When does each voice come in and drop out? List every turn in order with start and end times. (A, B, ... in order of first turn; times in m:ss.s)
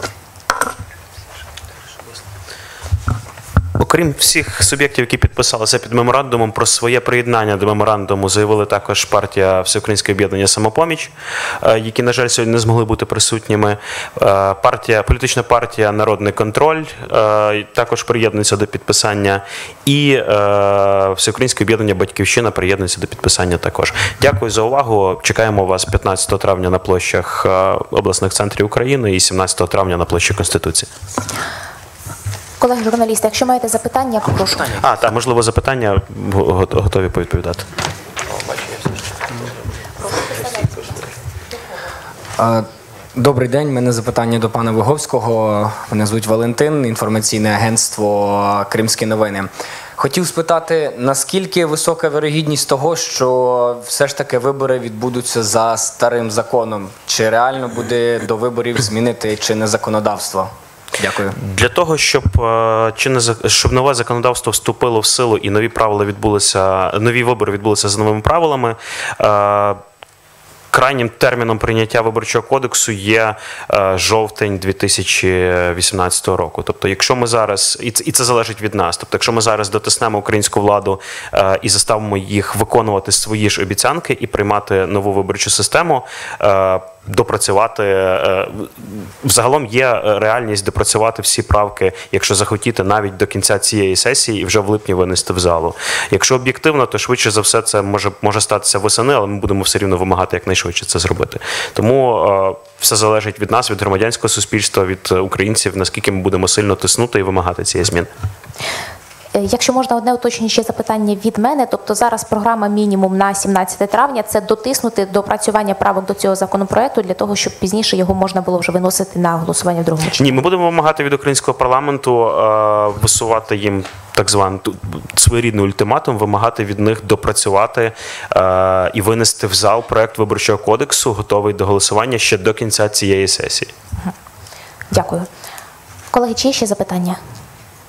0:03.8-0:30.9 A
0:32.6-0:34.8 B
0:34.8-0:37.6 A
0:42.4-1:01.4 C
1:01.4-1:09.8 A
1:10.7-1:48.1 A
1:49.4-2:00.4 B
2:00.2-2:13.7 A
2:14.9-2:15.3 B
2:16.1-2:17.2 B